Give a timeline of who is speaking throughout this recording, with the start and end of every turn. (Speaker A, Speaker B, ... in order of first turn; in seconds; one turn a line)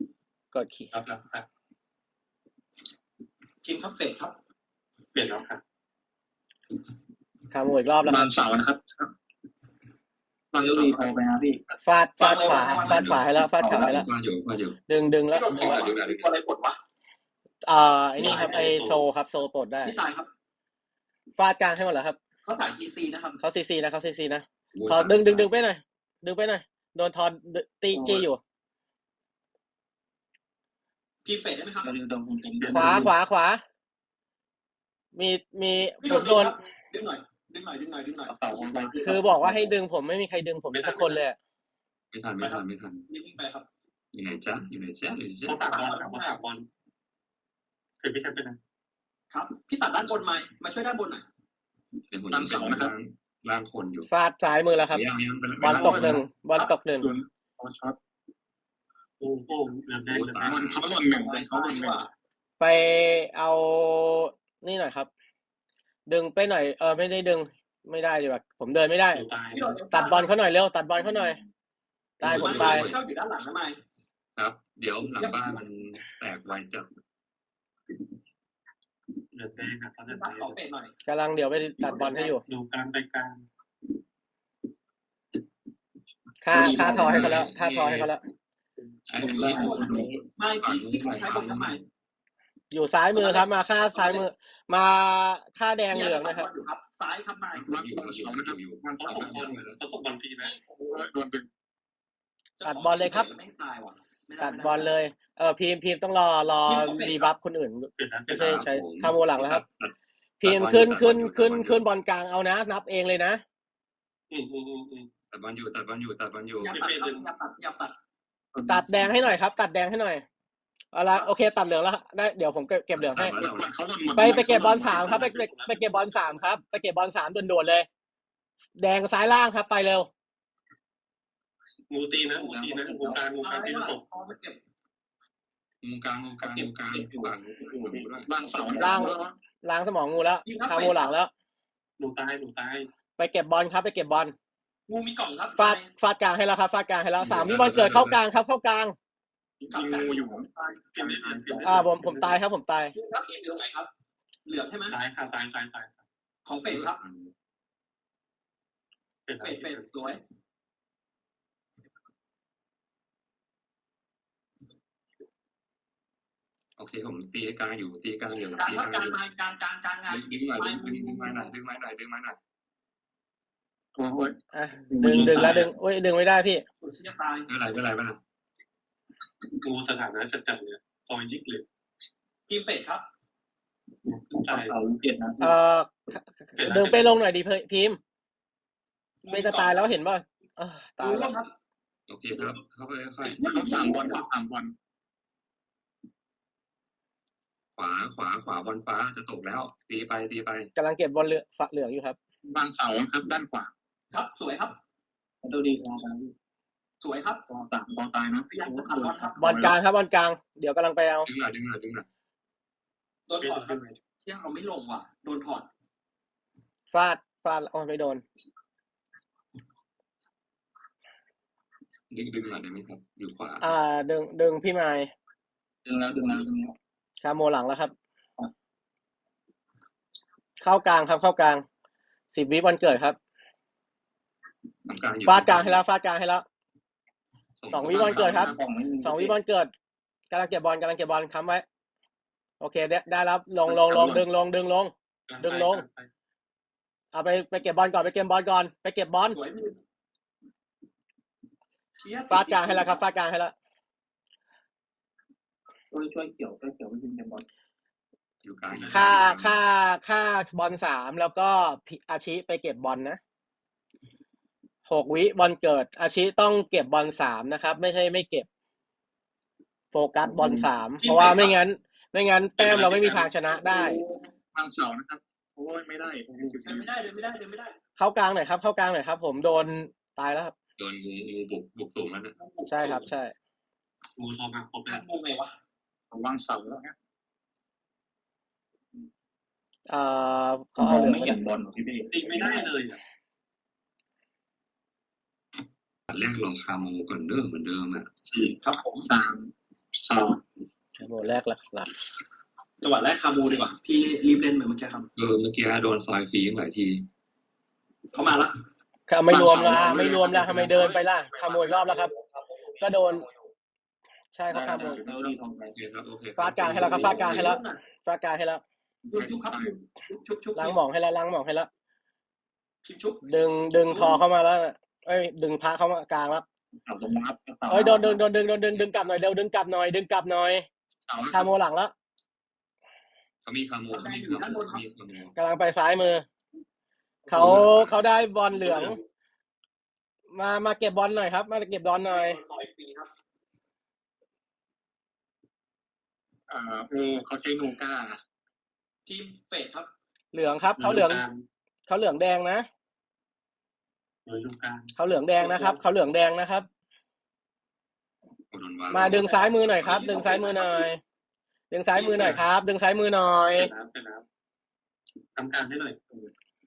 Speaker A: 0.5-0.9
Speaker B: 0.9-1.5
Speaker C: 3.6-4.4
Speaker B: 5.1-5.6
Speaker A: 7.5-8.3
Speaker D: 8.1-9.1
Speaker D: 10.5-11.8
Speaker E: 10.6-11.6
Speaker A: 11.8-14.1
Speaker C: 12.2-13.1
Speaker F: 12.7-14.8
Speaker E: 13.4-14.0
Speaker A: 14.9-15.9
Speaker C: 15.3-16.8
Speaker F: 15.5-16.3
Speaker A: 17.6-19.9
Speaker B: 18.2-19.0
Speaker C: 18.2-18.7
Speaker C: 19.8-20.3
Speaker A: 21.4-22.2
Speaker C: 22.5-23.4
Speaker A: 23.4-28.4
Speaker F: 24.7-25.5
Speaker E: 27.9-28.3
Speaker C: 31.2-31.9
Speaker E: 31.8-33.1
Speaker B: 32.6-33.1
Speaker A: 32.7-33.6
Speaker A: 35.1-36.5
Speaker C: 36.0-38.6
Speaker D: 38.3-39.2
Speaker E: 38.4-39.8
Speaker A: 39.0-41.4
Speaker B: 40.7-41.2
Speaker F: 42.1-43.0
Speaker C: 42.4-43.7
Speaker F: 44.1-45.6
Speaker B: 45.5-46.7
Speaker C: 45.6-46.4
Speaker B: 48.0-48.6
Speaker C: 49.3-51.3
Speaker F: 52.1-54.1
Speaker D: 52.3-52.9
Speaker A: 54.1-55.0
Speaker F: 54.9-56.2
Speaker D: 55.6-58.0
Speaker A: 55.6-57.1
Speaker B: 59.2-60.8
Speaker F: 60.1-60.9
Speaker D: 60.4-62.0
Speaker C: 61.0-62.1
Speaker A: 62.6-65.1
Speaker A: 66.1-69.2
Speaker B: 69.1-69.8
Speaker C: 69.5-70.3
Speaker A: 69.9-71.4
Speaker E: 71.0-71.5
Speaker A: 72.2-72.9
Speaker F: 72.2-73.0
Speaker C: 72.3-73.8
Speaker F: 74.4-76.9
Speaker C: 75.1-75.6
Speaker B: 79.3-80.6
Speaker C: 80.1-80.9
Speaker A: 81.1-82.5
Speaker C: 81.8-82.3
Speaker B: 82.4-83.5
Speaker A: 86.4-88.2
Speaker E: 86.5-87.4
Speaker D: 86.7-87.2
Speaker F: 87.0-88.1
Speaker F: 89.1-91.8
Speaker E: 89.3-90.1
Speaker C: 89.4-91.8
Speaker A: 92.7-96.5
Speaker C: 93.1-94.3
Speaker C: 95.9-97.7
Speaker F: 97.5-99.8
Speaker D: 97.7-99.6
Speaker B: 99.0-100.5
Speaker D: 100.9-101.5
Speaker C: 102.6-105.0
Speaker A: 102.6-103.3
Speaker A: 104.4-109.6
Speaker C: 106.7-107.3
Speaker B: 108.0-108.5
Speaker F: 108.3-111.9
Speaker A: 110.4-113.4
Speaker B: 114.3-115.1
Speaker F: 115.3-116.8
Speaker C: 116.6-118.0
Speaker B: 116.7-117.2
Speaker D: 118.5-119.3
Speaker A: 118.7-120.2
Speaker A: 120.9-123.4
Speaker F: 123.0-123.8
Speaker D: 123.3-125.2
Speaker A: 124.2-127.9
Speaker B: 124.3-126.2
Speaker A: 128.8-130.1
Speaker B: 131.9-134.0
Speaker E: 132.3-133.3
Speaker C: 133.4-134.6
Speaker F: 135.8-138.3
Speaker E: 136.4-139.2
Speaker D: 138.2-139.4
Speaker A: 138.8-141.3
Speaker C: 140.4-141.1
Speaker B: 142.0-142.9
Speaker A: 143.2-144.3
Speaker C: 144.9-145.9
Speaker A: 145.6-149.0
Speaker F: 147.2-148.2
Speaker C: 149.6-150.8
Speaker D: 149.7-151.8
Speaker B: 150.9-152.4
Speaker A: 151.6-152.9
Speaker C: 152.9-153.9
Speaker C: 154.5-155.0
Speaker B: 154.9-156.0
Speaker C: 156.4-157.0
Speaker F: 156.7-157.3
Speaker B: 159.3-159.9
Speaker C: 159.4-160.2
Speaker F: 166.8-169.2
Speaker C: 168.6-171.5
Speaker F: 170.1-172.4
Speaker D: 173.9-174.4
Speaker A: 174.5-176.6
Speaker D: 174.9-175.6
Speaker E: 175.1-175.5
Speaker B: 175.1-175.6
Speaker C: 176.8-177.5
Speaker F: 177.5-178.2
Speaker B: 179.6-181.7
Speaker C: 182.5-183.1
Speaker B: 184.1-184.7
Speaker E: 184.4-185.6
Speaker A: 185.4-188.0
Speaker B: 186.6-187.2
Speaker C: 189.2-189.9
Speaker A: 189.3-191.4
Speaker C: 191.0-191.5
Speaker F: 192.1-193.5
Speaker C: 193.2-194.3
Speaker D: 193.4-194.7
Speaker F: 197.8-200.7
Speaker A: 200.8-202.2
Speaker D: 202.5-203.7
Speaker C: 204.1-204.8
Speaker E: 205.4-206.3
Speaker C: 207.0-207.4
Speaker E: 207.5-207.8
Speaker D: 207.7-209.8
Speaker C: 208.5-209.5
Speaker A: 209.4-211.3
Speaker F: 211.2-212.1
Speaker C: 213.3-215.7
Speaker B: 213.4-214.0
Speaker A: 216.9-218.2
Speaker F: 222.1-223.7
Speaker A: 223.6-225.1
Speaker E: 225.8-226.8
Speaker A: 227.2-227.9
Speaker A: 230.6-231.7
Speaker A: 232.3-233.2
Speaker F: 234.9-235.8
Speaker A: 235.2-236.4
Speaker F: 237.6-238.5
Speaker A: 237.7-238.5
Speaker D: 237.9-238.6
Speaker E: 237.9-239.4
Speaker A: 239.0-239.7
Speaker A: 240.3-241.7
Speaker A: 242.6-245.8
Speaker D: 243.7-244.3
Speaker B: 245.3-246.1
Speaker A: 247.1-249.4
Speaker C: 249.3-249.8
Speaker C: 252.0-253.1
Speaker A: 252.3-253.5
Speaker E: 255.9-257.5
Speaker F: 258.4-259.6
Speaker A: 258.9-263.2
Speaker A: 264.9-268.5
Speaker A: 269.9-274.0
Speaker C: 271.0-271.6
Speaker D: 272.6-273.2
Speaker F: 272.6-273.2
Speaker C: 273.7-274.2
Speaker D: 274.5-276.9
Speaker C: 276.6-277.8
Speaker A: 278.0-280.5
Speaker F: 280.8-282.4
Speaker C: 282.4-283.1
Speaker A: 282.7-283.3
Speaker B: 284.2-285.1
Speaker C: 284.9-285.6
Speaker D: 286.1-286.9
Speaker A: 289.9-291.4
Speaker E: 290.8-292.3
Speaker B: 292.1-293.0
Speaker C: 292.4-292.7
Speaker F: 296.1-298.1
Speaker D: 298.2-300.4
Speaker C: 298.6-299.1
Speaker A: 301.0-301.9
Speaker C: 302.8-305.1
Speaker F: 305.2-307.1
Speaker C: 308.1-308.6
Speaker A: 309.1-312.1
Speaker D: 309.3-312.0
Speaker E: 312.8-313.2
Speaker A: 312.8-313.2
Speaker A: 314.3-315.0
Speaker E: 314.5-315.8
Speaker D: 314.6-315.1
Speaker C: 315.1-315.4
Speaker F: 315.7-317.6
Speaker A: 316.4-318.6
Speaker C: 316.7-317.8
Speaker D: 319.1-319.8
Speaker C: 319.1-320.8
Speaker A: 320.6-321.7
Speaker C: 322.9-323.3
Speaker A: 323.3-326.4
Speaker C: 323.9-324.2
Speaker E: 326.9-328.2
Speaker A: 327.7-330.7
Speaker D: 331.1-331.6
Speaker A: 331.3-331.9
Speaker F: 333.4-335.4
Speaker C: 333.9-334.8
Speaker A: 335.4-336.3
Speaker A: 337.3-339.0
Speaker F: 337.3-338.0
Speaker C: 338.6-339.0
Speaker A: 340.3-342.4
Speaker C: 342.1-343.1
Speaker D: 346.5-348.2
Speaker C: 349.1-349.9
Speaker A: 350.3-351.2
Speaker B: 350.8-351.4
Speaker A: 351.9-352.7
Speaker B: 354.2-355.8
Speaker A: 355.0-356.7
Speaker F: 358.5-359.9
Speaker A: 358.9-361.0
Speaker C: 359.8-360.9
Speaker A: 361.7-363.7
Speaker B: 361.9-362.4
Speaker B: 363.5-364.2
Speaker B: 365.4-366.0